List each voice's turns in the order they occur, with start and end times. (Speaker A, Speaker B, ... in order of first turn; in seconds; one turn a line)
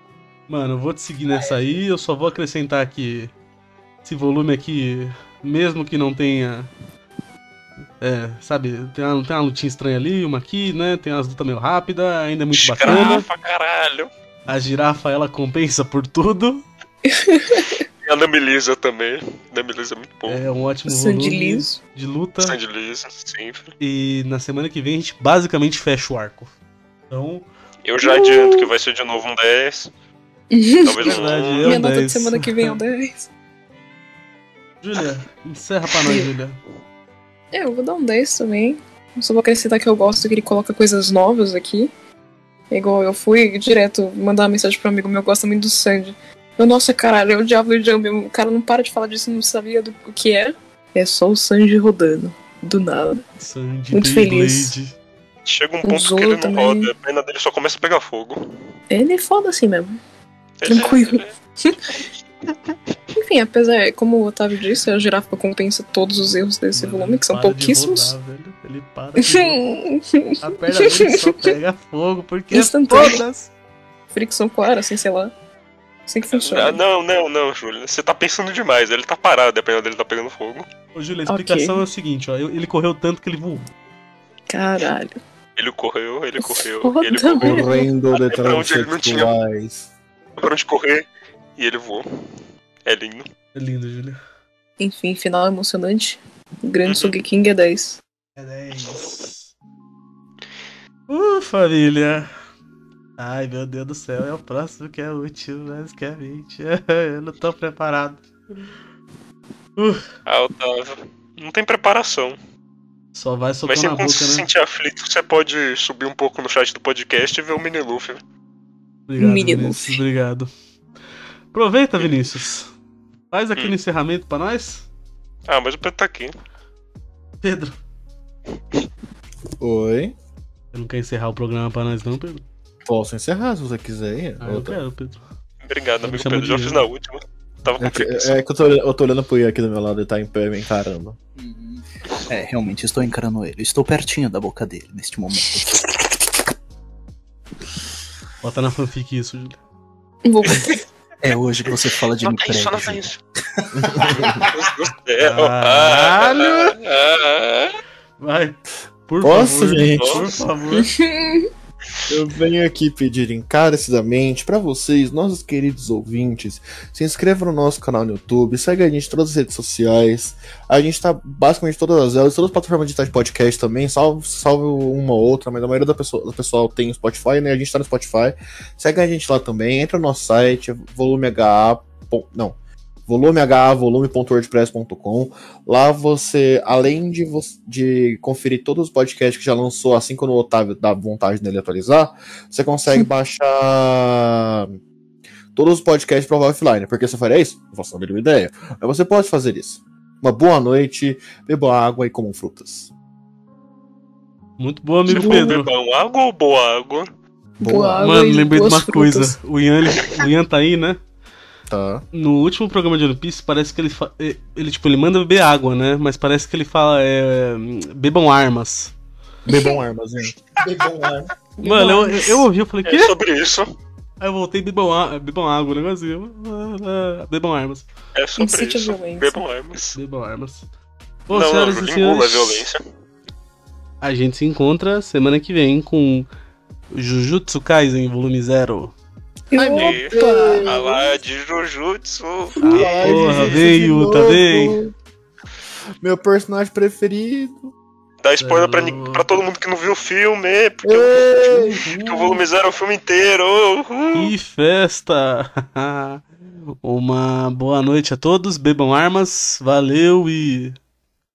Speaker A: 0.5-3.3
Speaker A: 4.0-6.7
Speaker A: 8.0-13.3
Speaker B: 12.6-14.1
Speaker C: 12.9-13.2
Speaker A: 14.5-16.6
Speaker C: 17.1-17.8
Speaker B: 18.0-20.4
Speaker A: 20.3-22.6
Speaker C: 20.9-21.8
Speaker B: 22.4-23.7
Speaker A: 23.8-26.5
Speaker A: 27.1-27.5
Speaker B: 27.9-29.9
Speaker C: 28.0-28.7
Speaker C: 30.5-33.3
Speaker B: 30.8-31.9
Speaker A: 31.0-32.8
Speaker A: 34.8-36.6
Speaker C: 37.5-41.9
Speaker C: 42.7-53.2
Speaker A: 53.4-55.0
Speaker C: 53.9-54.7
Speaker B: 55.5-58.6
Speaker C: 55.9-56.9
Speaker C: 58.9-60.0
Speaker B: 60.6-61.3
Speaker C: 60.6-62.0
Speaker C: 63.1-68.1
Speaker A: 66.7-69.6
Speaker C: 69.2-71.5
Speaker A: 70.4-73.5
Speaker C: 72.5-73.2
Speaker C: 74.1-75.3
Speaker C: 76.1-76.8
Speaker B: 76.3-80.7
Speaker A: 80.9-83.7
Speaker C: 81.3-81.8
Speaker C: 84.5-85.2
Speaker B: 85.6-89.3
Speaker C: 86.4-87.8
Speaker D: 87.4-89.9
Speaker B: 90.4-92.1
Speaker B: 92.9-93.2
Speaker A: 93.5-94.2
Speaker C: 94.8-98.0
Speaker B: 96.8-97.2
Speaker A: 98.4-99.5
Speaker A: 101.1-102.3
Speaker A: 103.2-108.7
Speaker A: 109.8-110.1
Speaker B: 110.3-112.4
Speaker A: 113.1-114.5
Speaker B: 113.7-118.2
Speaker A: 119.1-120.5
Speaker C: 119.2-120.0
Speaker A: 121.5-122.7
Speaker A: 123.3-124.9
Speaker B: 125.5-126.3
Speaker A: 127.4-127.8
Speaker D: 129.6-130.1
Speaker A: 130.7-132.4
Speaker D: 132.9-134.8
Speaker A: 134.4-135.2
Speaker B: 135.6-138.4
Speaker A: 136.0-136.9
Speaker D: 137.8-141.2
Speaker E: 141.4-146.4
Speaker A: 148.4-149.6
Speaker C: 150.2-150.8
Speaker E: 151.2-154.5
Speaker B: 152.2-153.2
Speaker D: 153.8-154.2
Speaker B: 154.5-157.8
Speaker A: 155.2-156.7
Speaker A: 158.2-160.9
Speaker D: 159.2-160.4
Speaker B: 160.0-160.2
Speaker C: 160.7-161.5
Speaker D: 162.1-182.6
Speaker D: 183.1-194.7
Speaker D: 195.6-202.9
Speaker A: 204.6-205.7
Speaker C: 205.1-205.6
Speaker B: 205.1-207.1
Speaker C: 207.6-209.4
Speaker D: 207.6-208.1
Speaker A: 208.0-211.0
Speaker B: 210.0-210.2
Speaker D: 211.7-212.1
Speaker A: 212.1-218.9
Speaker D: 219.5-221.3
Speaker C: 219.5-219.8
Speaker C: 221.6-222.4
Speaker A: 221.6-223.2
Speaker B: 222.9-223.7
Speaker A: 224.2-227.9
Speaker B: 228.2-230.0
Speaker C: 228.4-229.4
Speaker A: 229.9-230.7
Speaker A: 231.3-232.7
Speaker B: 231.3-232.8
Speaker A: 234.0-236.3
Speaker A: 236.9-238.9
Speaker C: 239.5-241.1
Speaker B: 239.7-240.1
Speaker D: 239.7-240.8
Speaker B: 240.7-243.5
Speaker C: 242.6-244.9
Speaker A: 242.6-244.8
Speaker D: 242.7-244.8
Speaker D: 246.0-247.7
Speaker B: 248.2-254.3
Speaker A: 248.4-249.3
Speaker D: 250.8-251.8
Speaker A: 251.5-252.4
Speaker A: 254.1-260.8